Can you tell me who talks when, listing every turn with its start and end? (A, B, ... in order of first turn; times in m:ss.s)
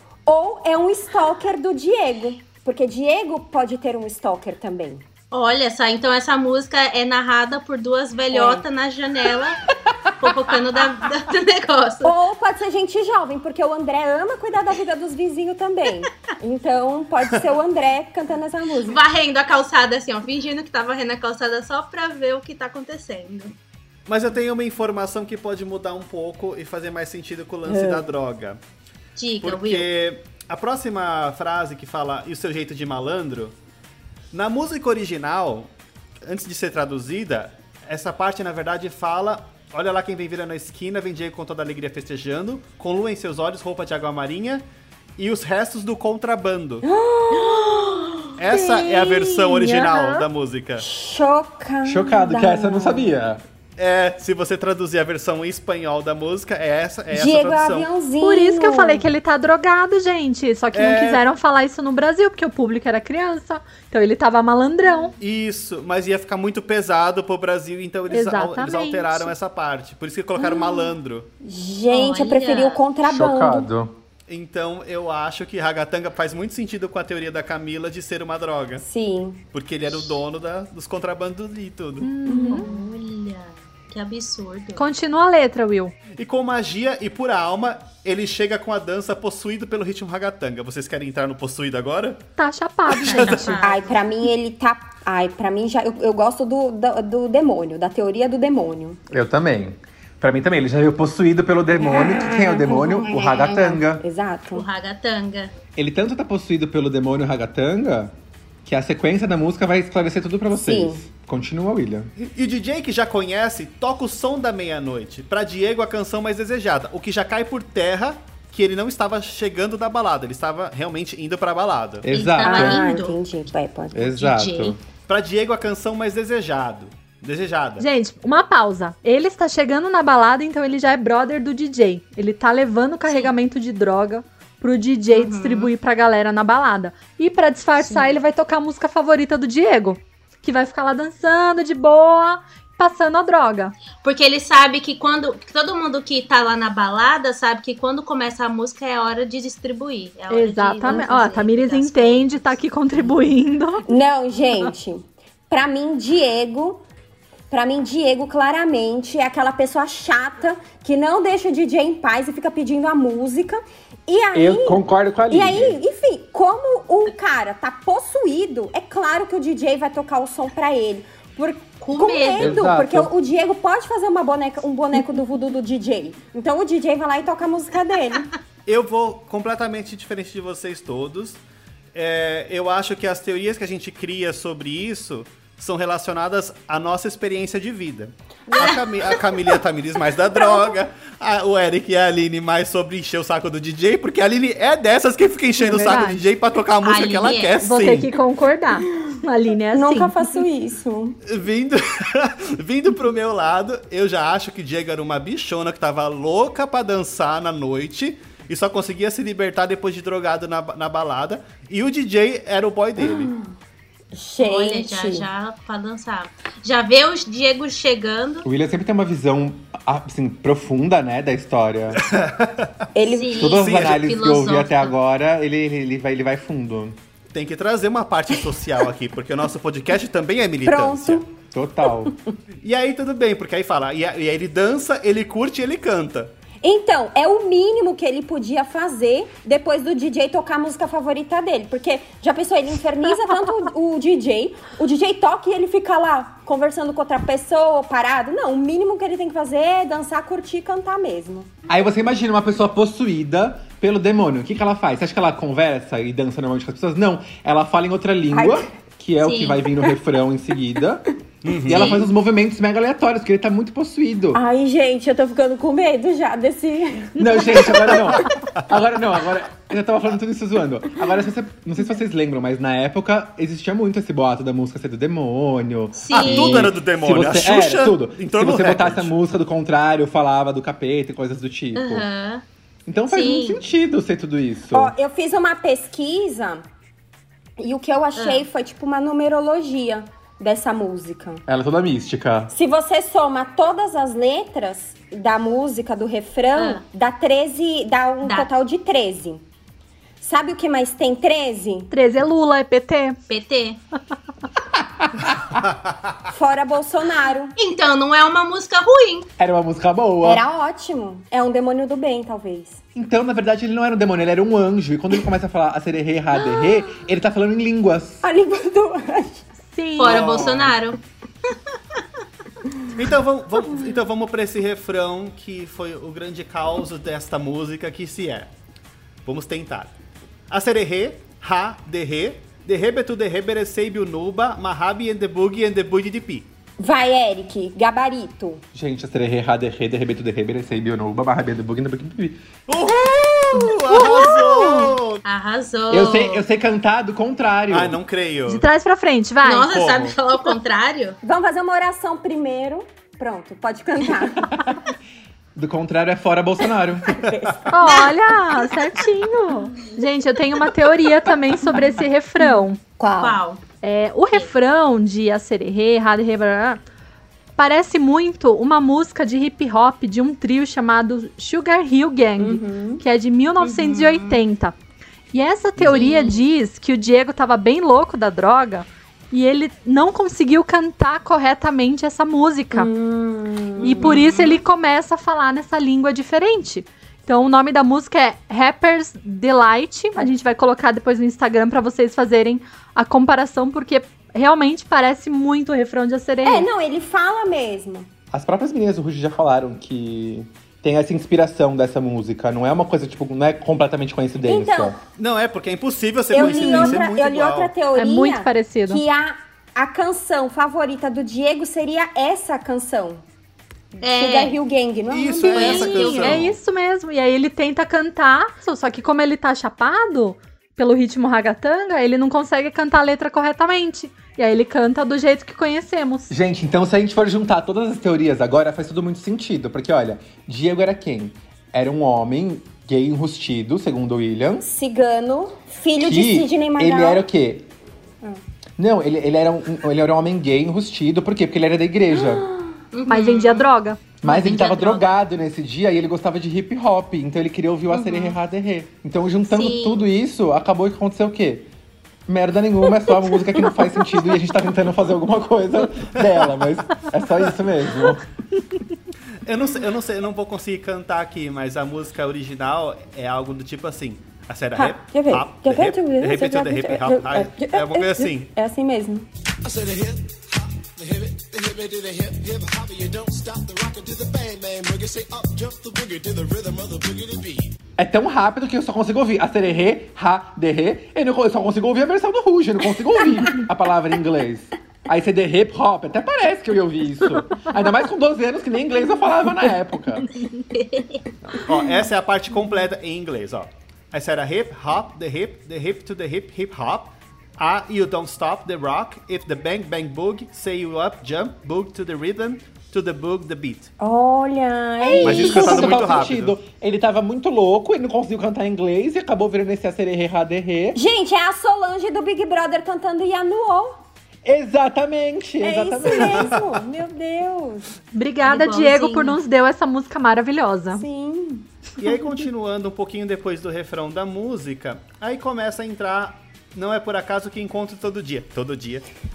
0:00.2-0:05.0 A
0:05.3-0:12.1 B
0:08.3-0:08.6 A
0:12.0-0:19.0 A
0:18.8-0:23.5 B
0:24.1-0:28.6 C
0:27.6-0:28.1 A
0:29.2-0:29.9 B
0:29.4-0:33.5 C
0:34.3-0:35.7 C
0:36.2-0:44.6 C
0:45.2-0:46.8 C
0:46.8-0:49.3 A
0:48.4-0:50.8 C
0:49.4-0:50.3 D
0:50.8-0:53.2 A
0:51.8-0:53.4 E
0:53.8-0:57.9 C
0:57.1-0:59.0 A
0:58.2-1:05.1 D
1:00.7-1:01.2 C
1:05.2-1:11.3 C
1:08.1-1:09.3 D
1:10.4-1:13.7 A
1:11.9-1:12.8 B
1:13.0-1:13.9 E
1:14.3-1:18.8 C
1:18.8-1:19.4 A
1:19.5-1:22.1 C
1:22.0-1:22.7 D
1:22.2-1:22.8 A
1:22.5-1:24.8 B
1:24.8-1:25.9 D
1:26.2-1:32.2 C
1:32.4-1:33.6 D
1:32.9-1:33.5 C
1:33.0-1:34.0 B
1:33.6-1:39.0 A
1:39.1-1:44.0 E
1:41.8-1:44.6 A
1:44.5-1:45.5 B
1:45.8-1:52.1 E
1:50.5-1:51.0 A
1:52.2-2:02.1 C
2:02.0-2:02.8 E
2:02.1-2:03.2 B
2:02.4-2:04.0 A
2:03.9-2:04.8 E
2:04.0-2:04.8 B
2:05.1-2:07.8 C
2:07.8-2:23.7 D
2:13.1-2:13.3 B
2:15.1-2:15.7 B
2:17.8-2:18.2 B
2:24.0-2:32.3 B
2:30.3-2:33.9 D
2:30.8-2:31.1 A
2:33.9-2:36.8 A
2:37.5-2:58.3 A
2:44.3-2:45.8 E
2:51.8-2:52.7 B
2:52.4-2:53.1 E
2:58.6-3:01.4 C
3:01.9-3:18.1 C
3:08.5-3:09.6 B
3:15.6-3:16.2 D
3:16.8-3:17.6 B
3:17.6-3:20.1 D
3:19.7-3:21.2 A
3:21.3-3:33.3 C
3:33.0-3:33.5 A
3:34.1-3:35.2 A
3:34.4-3:38.5 B
3:38.4-3:42.1 E
3:41.9-3:42.8 C
3:42.9-3:43.4 A
3:43.0-3:44.9 B
3:43.3-3:47.0 E
3:43.6-3:44.0 C
3:47.3-3:51.2 C
3:50.6-3:51.3 A
3:51.5-3:52.1 E
3:51.8-3:52.3 A
3:52.6-3:56.3 C
3:56.6-4:11.5 A
4:11.7-4:21.1 E
4:18.3-4:18.7 A
4:19.2-4:19.6 B
4:21.4-4:22.1 C
4:21.6-4:24.4 E
4:21.7-4:22.1 B
4:24.3-4:28.3 A
4:27.2-4:42.0 E
4:35.9-4:36.7 B
4:36.1-4:39.1 C
4:41.8-4:42.4 B
4:42.8-4:44.9 E
4:43.1-4:43.6 B
4:44.7-4:46.7 A
4:47.6-4:51.4 A
4:48.1-4:48.4 B
4:51.5-4:52.5 E
4:52.5-4:59.4 A
4:56.5-4:56.8 B
4:58.2-4:58.5 B
5:00.2-5:01.9 A
5:01.9-5:03.2 D
5:03.3-5:03.8 B
5:04.7-5:05.6 E
5:06.3-5:07.5 A
5:07.6-5:09.3 B
5:09.4-5:10.4 E
5:10.2-5:12.8 A
5:12.9-5:18.2 E
5:18.2-5:19.4 A
5:19.7-5:20.3 D
5:20.0-5:21.5 B
5:20.0-5:20.8 C
5:23.0-5:28.5 C
5:29.2-5:29.9 C
5:30.5-5:36.5 C
5:36.8-5:38.6 A
5:38.7-5:42.4 E
5:42.7-5:45.2 C
5:43.0-5:44.8 A
5:45.2-5:46.4 B
5:45.9-5:48.0 E
5:47.7-5:48.6 C
5:48.5-5:49.7 D
5:49.4-5:51.2 B
5:49.6-5:50.2 C
5:51.2-5:54.8 A
5:55.5-5:57.2 E
5:57.2-5:58.0 A
5:57.7-6:02.8 D
6:03.0-6:03.4 A
6:03.1-6:03.6 B
6:03.8-6:06.8 D
6:07.6-6:14.7 D
6:12.4-6:13.0 A
6:13.6-6:14.4 B
6:15.3-6:22.9 D
6:15.8-6:16.0 C
6:15.9-6:16.4 B
6:22.7-6:24.2 A
6:23.8-6:24.6 B
6:23.8-6:36.7 D
6:36.4-6:38.1 A
6:38.3-6:45.0 E
6:44.4-6:45.0 A
6:45.2-6:47.7 C
6:46.3-6:53.2 A
6:46.4-6:47.0 D
6:48.0-6:49.0 D
6:53.9-6:56.2 A
6:54.0-6:54.6 B
6:55.1-6:56.6 C
6:55.4-6:56.5 B
6:55.8-7:06.3 D
7:06.3-7:14.6 E
7:14.6-7:17.2 A
7:16.0-7:17.7 E
7:18.8-7:22.5 E
7:22.9-7:23.6 B
7:23.1-7:24.0 D
7:24.2-7:31.7 E
7:24.2-7:25.1 B
7:27.9-7:28.3 B
7:29.5-7:30.1 B
7:32.3-7:38.2 E
7:39.4-7:48.5 C
7:44.8-7:49.3 A
7:49.6-7:57.8 F
7:58.0-8:10.3 E
8:10.6-8:11.2 B
8:11.6-8:23.9 C
8:24.0-8:26.1 A
8:25.2-8:26.6 C
8:25.2-8:31.0 E
8:30.9-8:34.0 A
8:34.4-8:36.6 E
8:35.6-8:37.9 A
8:36.1-8:36.6 C
8:38.1-8:41.0 D
8:38.5-8:39.4 B
8:40.9-8:41.7 A
8:42.0-8:49.0 C